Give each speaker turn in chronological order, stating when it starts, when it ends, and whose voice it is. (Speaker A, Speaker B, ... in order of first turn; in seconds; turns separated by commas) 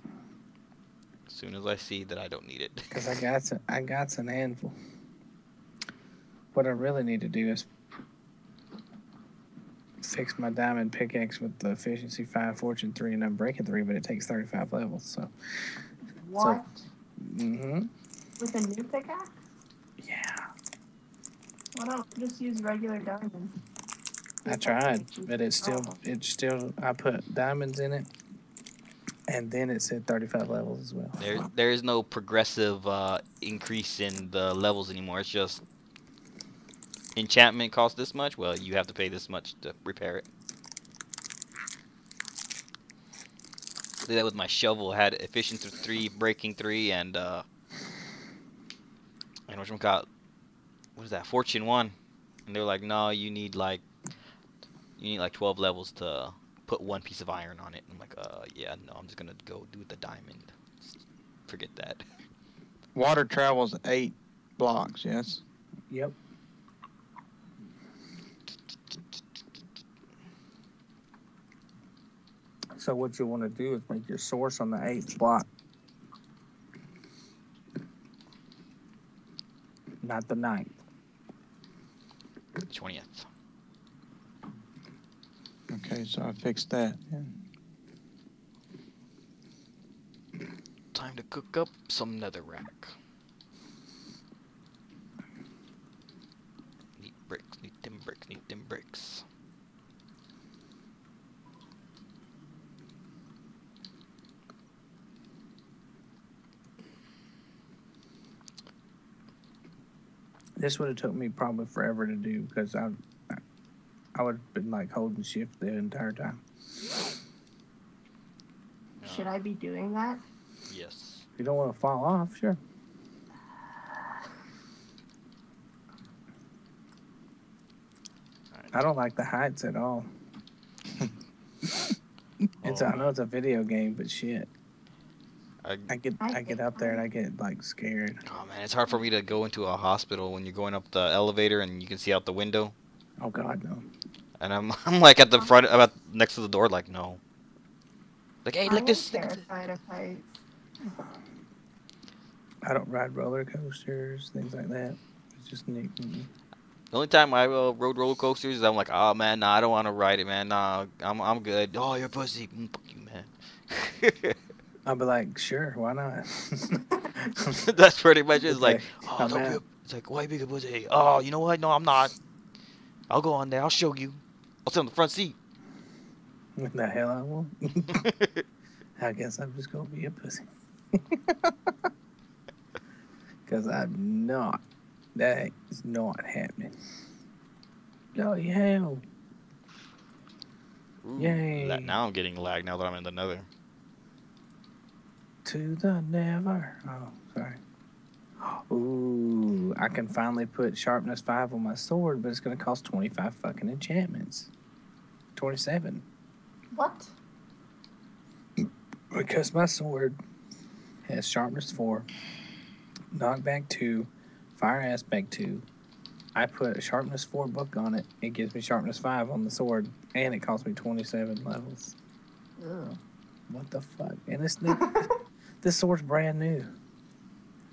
Speaker A: 1.3-2.9, Speaker B: 2.9-4.8, Speaker B: 6.5-7.7, Speaker B: 10.0-15.3, Speaker C: 16.2-16.7, Speaker B: 17.2-17.9, Speaker C: 18.4-19.3, Speaker B: 20.0-20.5, Speaker C: 21.8-23.6, Speaker C: 24.4-25.9, Speaker B: 24.5-28.1, Speaker B: 29.3-31.2, Speaker A: 31.2-35.6, Speaker A: 37.2-40.3, Speaker A: 44.1-47.5, Speaker A: 49.5-50.1, Speaker A: 51.0-52.0, Speaker A: 52.5-53.9, Speaker A: 55.0-60.5, Speaker A: 61.5-62.0, Speaker D: 62.9-65.4, Speaker B: 65.9-66.2, Speaker B: 72.8-75.5, Speaker B: 80.0-80.8, Speaker A: 82.7-83.3, Speaker D: 85.7-87.4, Speaker A: 90.9-92.9, Speaker A: 97.0-99.2, Speaker B: 110.6-113.4, Speaker B: 114.2-116.4, Speaker A: 119.0-119.3, Speaker C: 119.0-120.2, Speaker A: 120.7-121.3, Speaker B: 121.4-122.6, Speaker B: 128.7-130.1, Speaker A: 132.6-133.0, Speaker B: 132.6-134.5, Speaker A: 135.6-135.9, Speaker B: 135.9-138.2, Speaker C: 136.2-137.1, Speaker A: 138.2-142.8, Speaker B: 143.2-143.9, Speaker A: 144.4-147.2, Speaker A: 148.4-149.4, Speaker C: 148.7-150.3, Speaker B: 152.6-156.3, Speaker A: 156.9-164.4, Speaker B: 164.8-167.6, Speaker A: 167.5-172.1, Speaker B: 168.5-169.6, Speaker A: 173.1-175.4, Speaker B: 176.6-178.1, Speaker A: 177.9-178.4, Speaker B: 179.0-181.8, Speaker B: 183.5-184.6, Speaker B: 185.2-186.7, Speaker B: 188.2-189.0, Speaker A: 191.0-193.5, Speaker B: 191.2-192.0, Speaker B: 195.4-197.6, Speaker B: 198.4-204.5, Speaker B: 205.4-206.0, Speaker C: 206.7-207.1, Speaker B: 208.6-210.2, Speaker B: 211.1-212.1, Speaker B: 213.1-215.7, Speaker B: 216.3-221.9, Speaker C: 222.6-223.0, Speaker B: 223.5-225.0, Speaker C: 224.7-225.1, Speaker B: 225.6-226.7